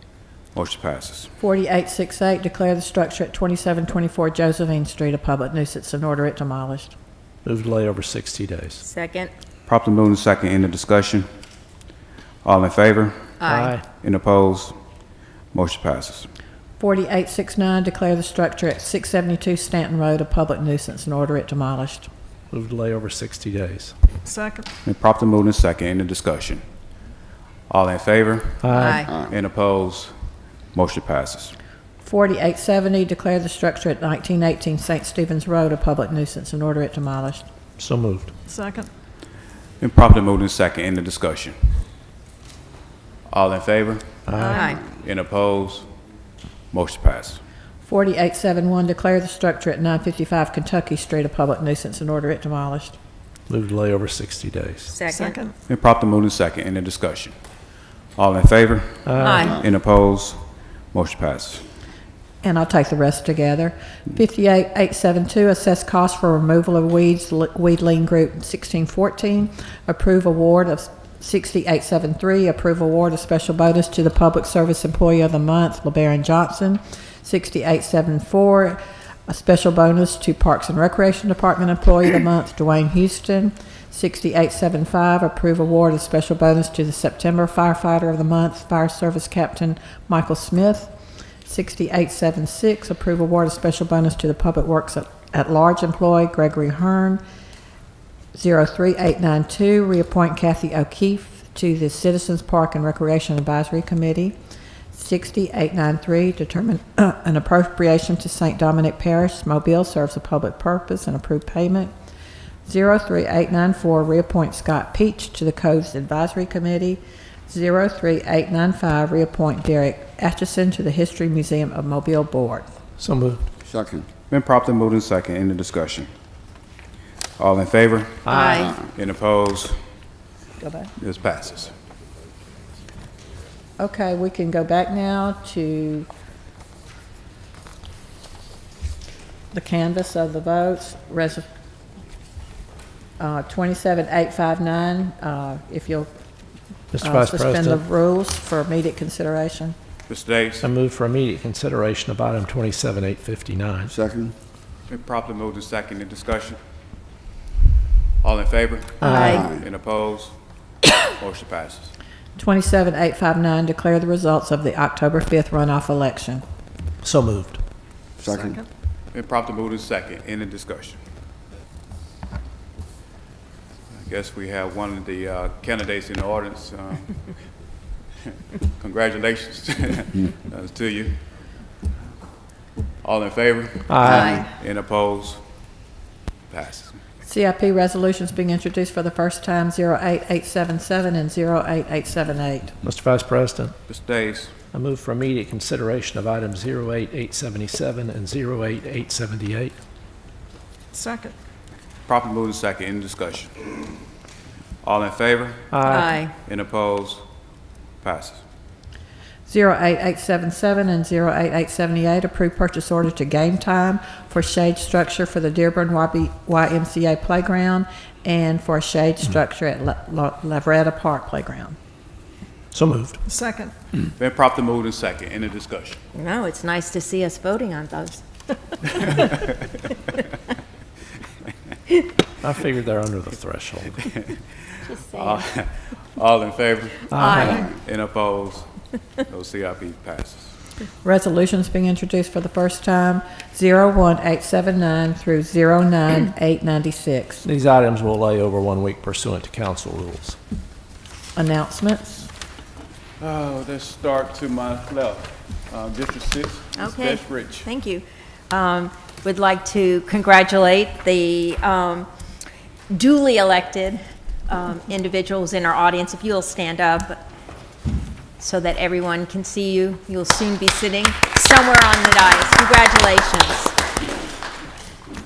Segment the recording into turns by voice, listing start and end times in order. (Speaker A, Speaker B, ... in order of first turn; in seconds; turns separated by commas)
Speaker A: 0.5-1.3, Speaker B: 1.4-6.9, Speaker C: 7.4-8.8, Speaker D: 8.8-9.3, Speaker A: 9.7-11.3, Speaker A: 12.4-13.3, Speaker D: 13.4-13.7, Speaker C: 13.4-13.9, Speaker A: 14.0-14.8, Speaker A: 15.5-16.3, Speaker B: 16.8-22.1, Speaker C: 22.5-23.9, Speaker E: 24.2-24.7, Speaker A: 24.8-26.6, Speaker A: 27.7-30.1, Speaker C: 28.6-29.1, Speaker D: 28.7-29.1, Speaker F: 29.0-29.3, Speaker A: 30.7-31.5, Speaker B: 32.0-37.4, Speaker C: 37.8-38.3, Speaker E: 38.5-38.9, Speaker A: 39.8-41.8, Speaker A: 43.3-44.2, Speaker C: 44.3-44.7, Speaker D: 44.4-44.8, Speaker A: 44.8-45.9, Speaker A: 46.7-47.4, Speaker B: 47.8-53.0, Speaker C: 53.5-54.9, Speaker D: 54.9-55.4, Speaker E: 55.0-55.5, Speaker A: 55.7-57.3, Speaker A: 58.2-61.6, Speaker C: 59.0-59.5, Speaker D: 59.2-59.6, Speaker B: 62.4-90.9, Speaker B: 91.5-97.2, Speaker B: 98.3-104.3, Speaker B: 104.9-111.9, Speaker B: 112.7-122.7, Speaker C: 123.0-123.4, Speaker F: 123.6-124.1, Speaker A: 124.3-126.1, Speaker A: 127.4-129.8, Speaker C: 128.2-128.7, Speaker D: 128.3-128.7, Speaker B: 130.6-130.9, Speaker A: 131.0-131.7, Speaker B: 133.8-136.1, Speaker B: 139.5-141.5, Speaker B: 143.2-146.1, Speaker C: 146.9-147.8, Speaker B: 147.0-149.7, Speaker A: 150.1-150.7, Speaker C: 150.6-153.9, Speaker F: 153.9-154.3, Speaker A: 154.9-156.6, Speaker A: 158.2-160.3, Speaker D: 159.0-159.5, Speaker C: 159.1-159.4, Speaker F: 159.2-159.7, Speaker A: 161.2-161.9, Speaker B: 162.4-166.4, Speaker C: 167.0-167.6, Speaker F: 168.2-168.6, Speaker A: 169.1-171.0, Speaker A: 173.9-177.2, Speaker A: 178.8-181.2, Speaker A: 183.0-185.4, Speaker C: 183.9-184.4, Speaker D: 184.0-184.4, Speaker A: 186.5-187.0, Speaker B: 187.2-192.8, Speaker C: 192.8-193.7, Speaker A: 193.9-194.5, Speaker C: 194.7-199.7, Speaker E: 200.9-201.3, Speaker A: 202.1-203.8, Speaker A: 204.8-205.7, Speaker C: 205.7-206.2, Speaker D: 205.8-206.3, Speaker A: 206.3-207.2, Speaker A: 208.0-208.4, Speaker B: 209.4-221.8, Speaker C: 222.7-223.2, Speaker E: 223.2-223.7, Speaker A: 224.2-226.0, Speaker D: 226.1-228.2, Speaker D: 228.8-229.4, Speaker C: 232.4-234.0, Speaker D: 234.9-235.3, Speaker A: 235.1-238.7, Speaker C: 237.1-237.6, Speaker D: 237.1-237.6, Speaker A: 239.2-240.5, Speaker B: 241.0-247.4, Speaker C: 247.4-250.4, Speaker B: 251.3-252.3, Speaker A: 253.2-257.7, Speaker D: 256.8-262.1, Speaker D: 262.9-267.2, Speaker D: 268.4-273.7